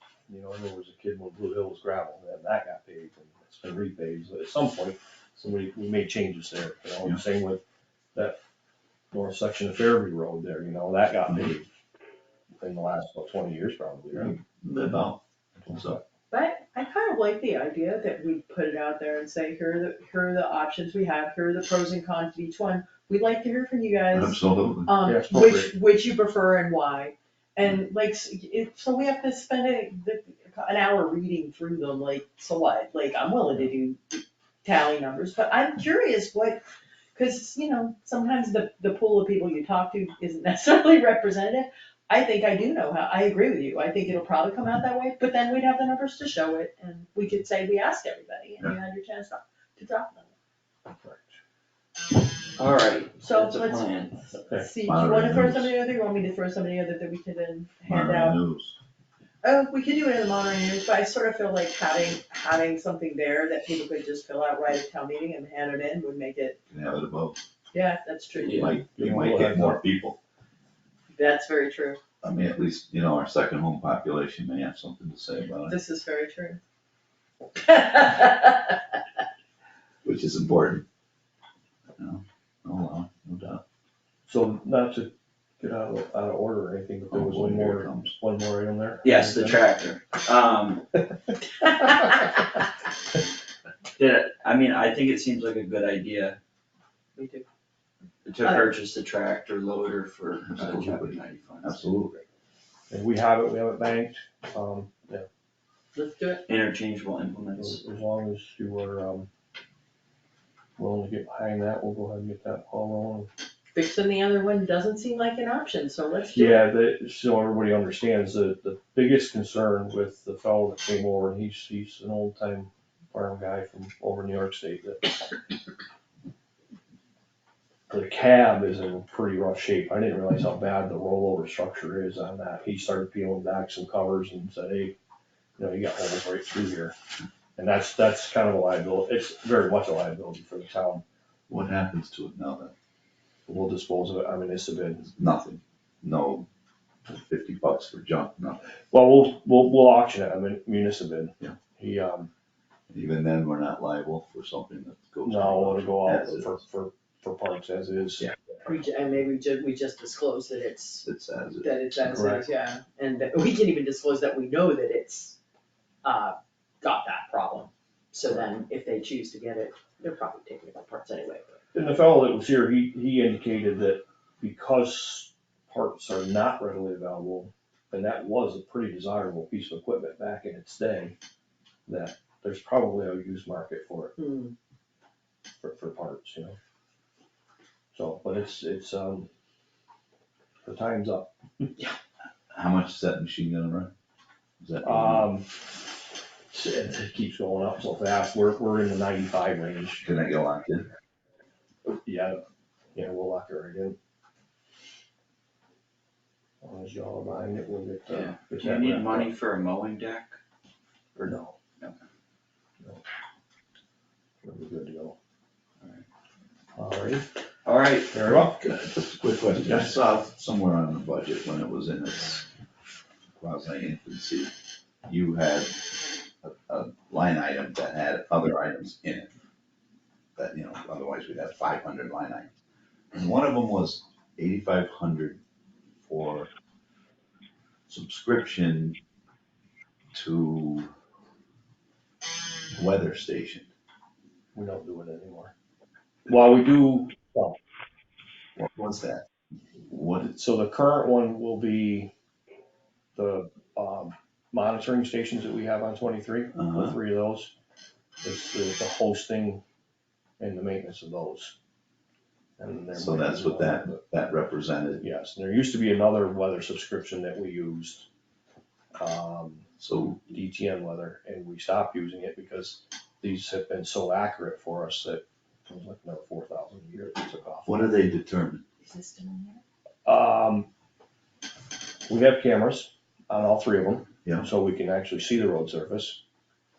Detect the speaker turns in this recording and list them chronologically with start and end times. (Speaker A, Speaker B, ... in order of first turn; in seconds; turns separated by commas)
Speaker A: 0.3-7.6, Speaker A: 9.1-11.7, Speaker A: 12.6-14.4, Speaker B: 14.1-16.0, Speaker C: 16.3-36.6, Speaker B: 24.1-24.9, Speaker A: 25.0-25.7, Speaker C: 37.1-50.3, Speaker A: 50.9-51.4, Speaker D: 52.6-54.1, Speaker C: 53.2-53.9, Speaker A: 54.4-54.7, Speaker C: 54.5-58.4, Speaker B: 54.8-55.7, Speaker B: 57.9-58.8, Speaker C: 59.4-66.6, Speaker B: 66.7-67.4, Speaker C: 67.7-68.7, Speaker D: 68.4-68.8, Speaker B: 68.5-70.2, Speaker A: 69.0-69.8, Speaker C: 71.1-72.0, Speaker B: 72.2-75.8, Speaker C: 75.7-76.6, Speaker C: 77.5-79.0, Speaker B: 80.0-80.8, Speaker B: 82.0-83.6, Speaker A: 84.3-89.6, Speaker B: 87.1-88.2, Speaker D: 89.0-90.9, Speaker D: 93.9-96.4, Speaker C: 97.2-97.5, Speaker D: 98.2-102.0, Speaker C: 98.4-98.7, Speaker B: 100.5-102.2, Speaker A: 102.9-105.3, Speaker C: 105.9-106.4, Speaker D: 106.5-107.8, Speaker A: 107.6-109.3, Speaker A: 110.8-113.3, Speaker C: 113.7-116.6, Speaker A: 116.3-125.1, Speaker A: 127.9-134.9, Speaker A: 135.6-136.9, Speaker A: 137.6-141.0, Speaker B: 141.5-142.7, Speaker A: 143.5-145.1, Speaker B: 145.1-146.5, Speaker B: 147.1-148.6, Speaker A: 148.9-152.3, Speaker B: 152.9-156.5, Speaker A: 155.2-158.3, Speaker C: 158.6-161.1, Speaker B: 161.0-161.7, Speaker C: 161.6-165.4, Speaker A: 162.0-162.4, Speaker C: 166.0-171.6, Speaker A: 171.7-181.1, Speaker A: 181.8-184.2, Speaker C: 184.2-184.5, Speaker A: 185.6-186.6, Speaker A: 187.9-189.3, Speaker A: 190.6-191.7, Speaker B: 192.5-193.9, Speaker B: 194.6-195.3, Speaker A: 194.8-195.6, Speaker A: 196.5-200.0, Speaker B: 200.0-200.9, Speaker A: 201.8-202.4, Speaker A: 202.9-204.0, Speaker A: 206.6-209.3, Speaker D: 208.1-210.4, Speaker A: 211.2-211.5, Speaker A: 214.4-215.2, Speaker A: 216.8-217.2, Speaker D: 217.6-218.1, Speaker A: 218.1-218.6, Speaker B: 218.2-222.4, Speaker A: 219.7-220.0, Speaker B: 223.4-224.5, Speaker B: 225.1-229.3, Speaker B: 230.4-232.5, Speaker B: 233.1-235.4, Speaker B: 236.0-236.5, Speaker B: 237.9-239.0, Speaker B: 240.1-240.9, Speaker B: 242.7-243.7, Speaker A: 244.5-245.5, Speaker A: 246.3-247.6, Speaker B: 248.6-249.2, Speaker B: 249.9-250.3, Speaker A: 250.2-252.1, Speaker A: 253.2-257.5, Speaker B: 256.6-256.9, Speaker A: 258.2-259.6, Speaker A: 260.4-261.5, Speaker A: 262.6-264.0, Speaker B: 262.9-265.0, Speaker A: 265.0-268.1, Speaker A: 268.9-269.6, Speaker B: 269.8-270.3, Speaker A: 270.3-277.9, Speaker B: 277.6-278.6, Speaker C: 278.8-279.6, Speaker A: 280.0-280.7, Speaker A: 282.1-286.2